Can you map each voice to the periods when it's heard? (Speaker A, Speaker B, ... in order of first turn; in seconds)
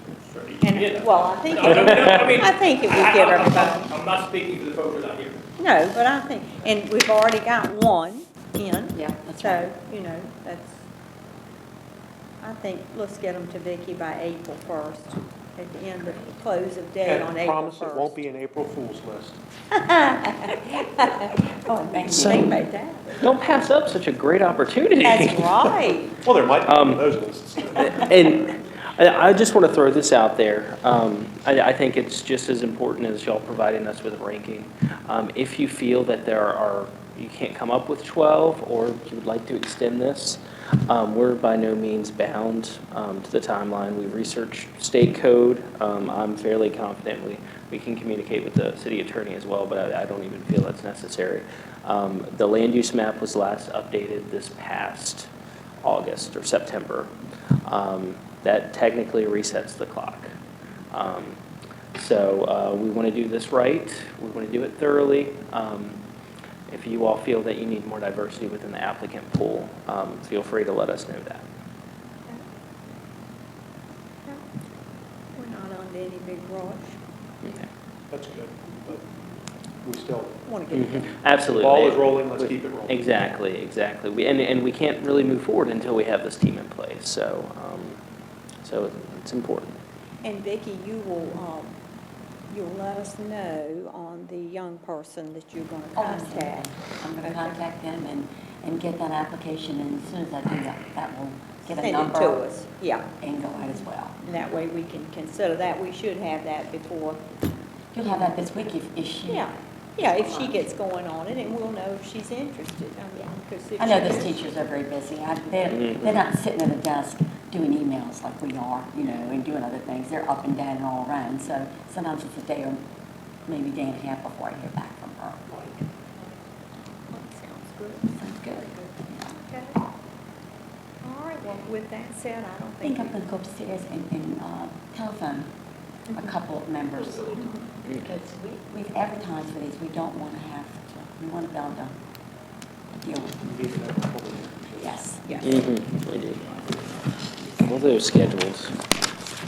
Speaker A: 0.2-5.4
Speaker B: 0.6-3.9, 5.6-10.8, 12.4-18.1, 19.7-23.6, 25.0-26.2, 75.3-77.0, 80.5-81.1, 90.2-91.7, 92.5-96.7, 97.2-97.6, 101.8-103.1, 104.2-107.2, 109.3-114.4, 127.1-129.8, 131.0-133.2, 145.2-145.6
Speaker C: 8.9-9.7, 21.7-22.5, 96.0-102.4, 103.2-104.2, 107.9-110.6, 113.8-122.8, 123.5-125.5, 128.1-129.3, 132.8-135.5, 136.1-141.9, 143.0-143.4, 144.8-145.5
Speaker D: 17.0-19.4, 26.2-28.1, 78.1-79.0, 79.8-80.4, 81.5-83.0, 125.5-125.8, 143.4-145.0
Speaker E: 22.1-22.6, 23.2-25.7, 26.6-27.1, 27.8-55.3, 55.8-57.1, 57.6-60.3, 60.9-61.4, 61.9-66.0, 66.7-71.5, 77.4-77.7, 80.7-88.0, 88.6-89.8, 115.7-116.2, 145.4-146.5, 147.5-148.8